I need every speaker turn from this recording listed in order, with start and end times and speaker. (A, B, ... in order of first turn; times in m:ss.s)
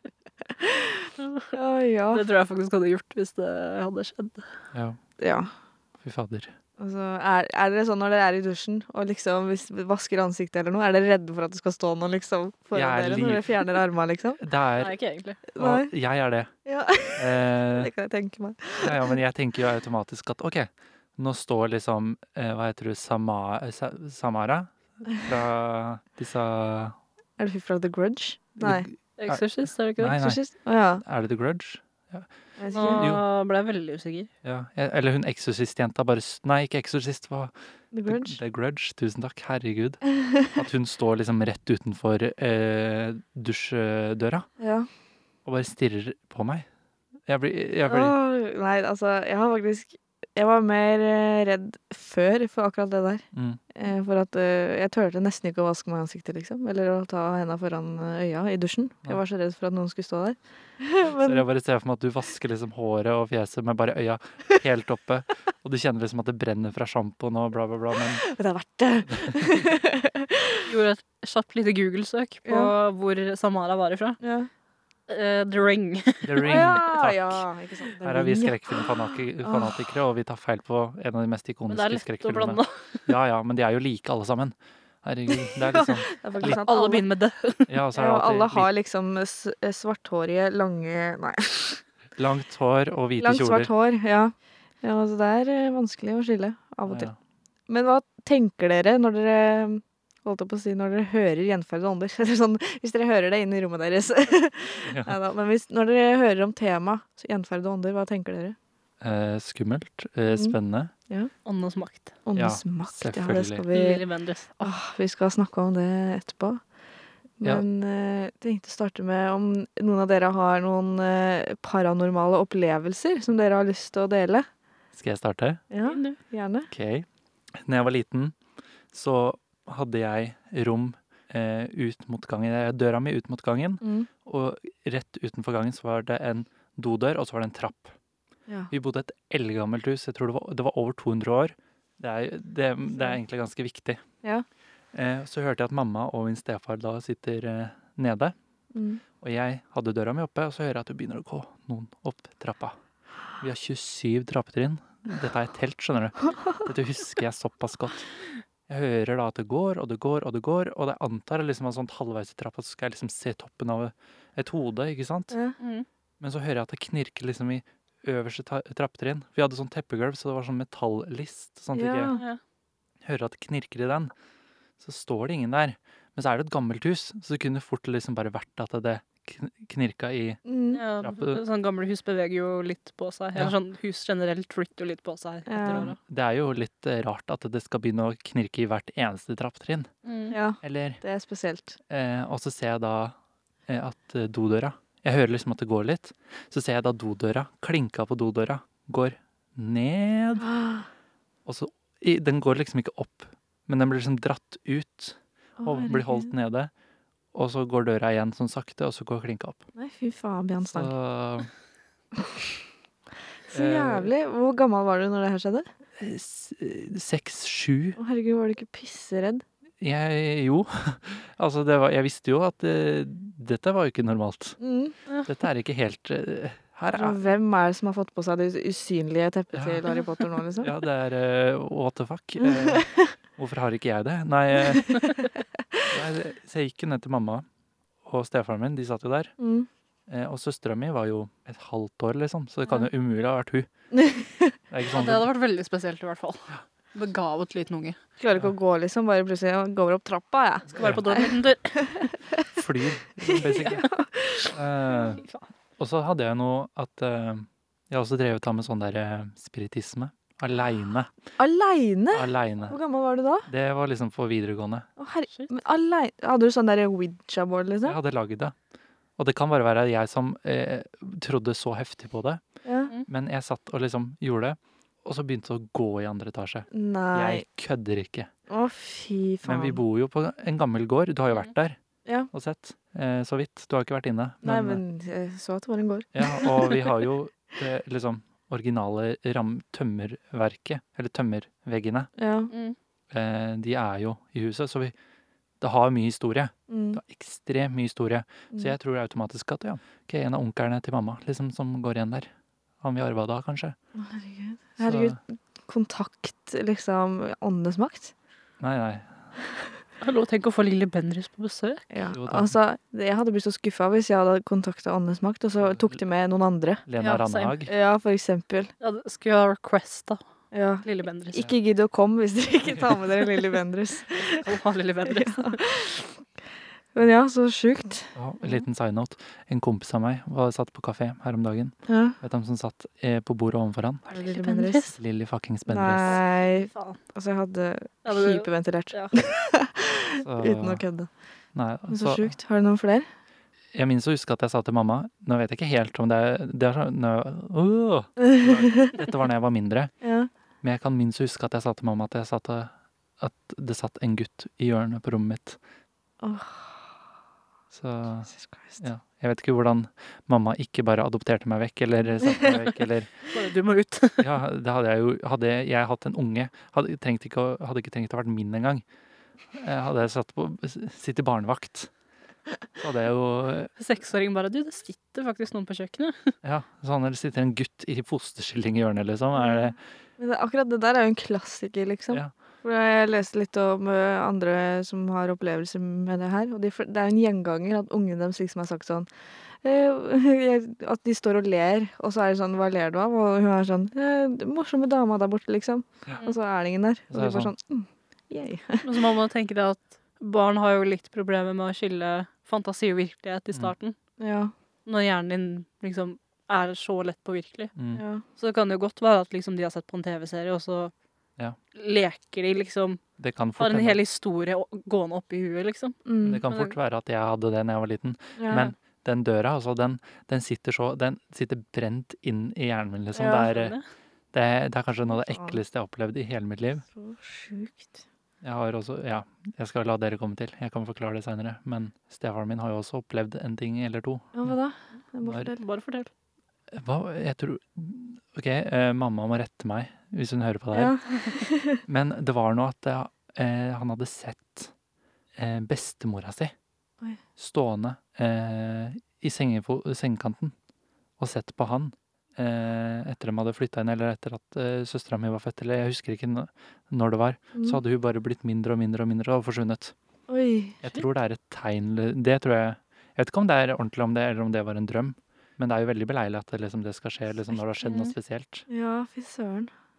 0:00.4-0:02.2 A
0:01.2-0:01.5 B
0:02.1-0:04.5 B
0:04.7-0:05.0 C
0:05.2-0:05.5 A
0:06.0-0:06.5 C
0:06.8-0:14.4 A
0:12.7-0:13.5 C
0:14.4-0:14.9 C
0:14.8-0:15.4 B
0:15.5-0:15.9 A
0:15.6-0:16.5 C
0:16.6-0:19.2 A
0:17.2-0:17.9 C
0:18.8-0:27.0 C
0:27.4-0:28.9 A
0:28.6-0:30.4 C
0:29.2-0:30.3 B
0:30.2-0:31.0 A
0:31.0-0:32.3 C
0:32.6-0:33.1 A
0:32.7-0:34.3 B
0:32.9-0:33.2 C
0:34.4-0:37.5 C
0:37.9-0:38.4 A
0:38.0-0:44.5 C
0:40.0-0:40.5 A
0:44.6-0:44.9 A
0:45.4-0:46.7 C
0:47.2-0:48.2 C
0:47.8-1:01.4 A
0:53.3-0:53.6 C
1:01.0-1:08.2 C
1:08.1-1:10.7 A
1:09.1-1:09.6 C
1:10.6-1:14.2 B
1:12.4-1:12.7 A
1:14.2-1:14.5 A
1:15.1-1:16.8 B
1:16.2-1:17.4 C
1:16.4-1:18.9 A
1:18.0-1:26.6 C
1:19.4-1:19.9 A
1:21.7-1:23.1 B
1:25.6-1:27.0 A
1:26.4-1:27.7 B
1:27.7-1:28.7 C
1:27.9-1:31.8 A
1:32.2-1:33.7 C
1:33.2-1:37.1 A
1:36.9-1:37.1 C
1:37.7-1:48.6 A
1:44.8-1:45.1 C
1:49.0-1:50.9 C
1:51.4-1:52.2 B
1:52.2-1:54.0 A
1:52.4-1:53.6 C
1:53.7-1:54.7 B
1:54.6-1:56.6 A
1:57.4-2:04.5 A
2:04.9-2:05.6 C
2:05.7-2:06.7 A
2:05.8-2:06.2 B
2:06.7-2:08.4 C
2:08.9-2:17.9 C
2:13.8-2:14.1 A
2:18.7-2:24.0 C
2:24.9-2:28.3 C
2:28.7-2:29.0 A
2:29.2-2:32.8 C
2:33.4-2:38.1 C
2:38.7-2:45.3 C
2:45.3-2:45.6 A
2:45.6-2:45.8 B
2:46.2-2:52.2 C
2:51.7-2:52.2 A
2:52.1-2:52.4 B
2:53.0-2:54.1 C
2:54.8-3:00.4 C
3:00.4-3:00.8 A
3:00.7-3:06.0 B
3:01.0-3:01.4 C
3:05.5-3:05.9 A
3:05.6-3:09.9 C
3:10.0-3:10.4 B
3:10.3-3:11.8 A
3:10.6-3:11.0 C
3:11.9-3:13.2 C
3:13.7-3:20.5 C
3:20.4-3:20.9 A
3:21.4-3:26.7 C
3:25.6-3:26.3 A
3:27.3-3:29.6 C
3:29.8-3:30.9 A
3:30.7-3:31.5 C
3:32.1-3:32.5 A
3:33.5-3:35.7 A
3:33.5-3:34.1 C
3:36.0-3:38.0 C
3:38.0-3:39.4 A
3:39.8-3:44.6 C
3:44.6-3:44.9 A
3:45.2-3:47.2 C
3:46.9-3:50.7 A
3:49.5-3:55.0 C
3:52.4-3:53.1 A
3:54.7-3:55.9 A
3:55.9-3:57.4 C
3:58.0-3:59.3 C
3:59.4-3:59.7 A
4:00.1-4:03.7 C
4:03.9-4:04.5 A
4:04.7-4:05.3 C
4:04.8-4:08.0 B
4:08.2-4:12.6 A
4:10.7-4:11.8 B
4:10.8-4:11.2 C
4:12.5-4:13.8 C
4:13.2-4:14.6 A
4:13.5-4:13.9 B
4:14.5-4:15.2 C
4:14.9-4:15.5 B
4:15.8-4:21.1 C
4:21.4-4:23.5 A
4:22.1-4:22.8 C
4:23.5-4:24.9 C
4:25.0-4:28.0 A
4:27.8-4:28.6 C
4:29.2-4:32.4 C
4:32.6-4:32.9 A
4:33.1-4:38.3 C
4:36.7-4:37.4 A
4:38.5-4:39.8 A
4:39.4-4:41.8 C
4:42.3-4:44.8 C
4:44.4-4:46.9 A
4:46.1-4:52.1 C
4:52.2-4:52.5 A
4:52.5-4:52.8 B
4:53.1-4:54.9 C
4:55.6-5:02.3 C
4:56.7-4:57.0 A
5:02.8-5:03.8 C
5:04.0-5:08.1 A
5:04.8-5:05.2 C
5:08.6-5:09.2 C
5:10.0-5:11.8 B
5:11.9-5:16.8 A
5:12.1-5:12.5 C
5:15.6-5:16.0 C
5:16.9-5:17.7 C
5:17.0-5:17.6 B
5:17.6-5:18.7 A
5:18.8-5:20.2 B
5:20.5-5:24.4 A
5:20.8-5:21.5 B
5:22.7-5:23.0 C
5:24.2-5:25.6 B
5:25.1-5:26.2 A
5:26.9-5:28.5 A
5:28.1-5:34.1 C
5:31.9-5:32.2 A
5:34.1-5:35.0 A
5:34.1-5:34.8 B
5:35.0-5:36.2 C
5:35.7-5:41.1 A
5:36.0-5:37.0 B
5:38.0-5:39.2 B
5:40.2-5:40.8 C
5:41.5-5:42.3 C
5:41.9-5:43.1 A
5:43.7-5:49.9 C
5:48.2-5:49.0 A
5:50.0-5:50.3 A
5:50.6-5:55.6 C
5:56.2-5:56.9 A
5:57.7-6:03.1 C
5:58.3-5:58.8 A
6:02.2-6:02.5 A
6:03.3-6:04.3 B
6:04.2-6:08.8 C
6:09.5-6:11.9 C
6:12.8-6:13.7 C
6:13.8-6:16.3 B
6:16.4-6:19.8 C
6:19.4-6:29.1 A
6:29.6-6:39.0 A
6:37.1-6:37.5 C
6:38.8-6:44.0 B
6:44.2-6:44.5 A
6:44.8-6:47.7 B
6:47.7-6:48.0 C
6:47.9-6:48.2 A
6:48.4-6:50.9 B
6:51.7-6:53.0 B
6:53.2-6:54.0 C
6:53.6-6:56.8 B
6:56.0-6:56.4 A
6:56.2-7:03.8 C
6:58.4-6:58.7 A
7:03.1-7:03.5 A
7:03.3-7:03.8 B
7:04.3-7:06.8 C
7:05.1-7:05.6 A
7:06.9-7:08.0 A
7:08.4-7:14.6 C
7:14.3-7:15.6 A
7:15.2-7:15.5 C
7:15.6-7:16.1 B
7:16.7-7:21.0 C
7:20.7-7:21.8 A
7:21.8-7:24.7 C
7:25.4-7:26.5 C
7:27.4-7:30.5 C
7:31.2-7:39.9 C
7:37.5-7:37.8 A
7:40.3-7:40.8 A
7:40.8-7:48.6 C
7:48.7-7:49.7 A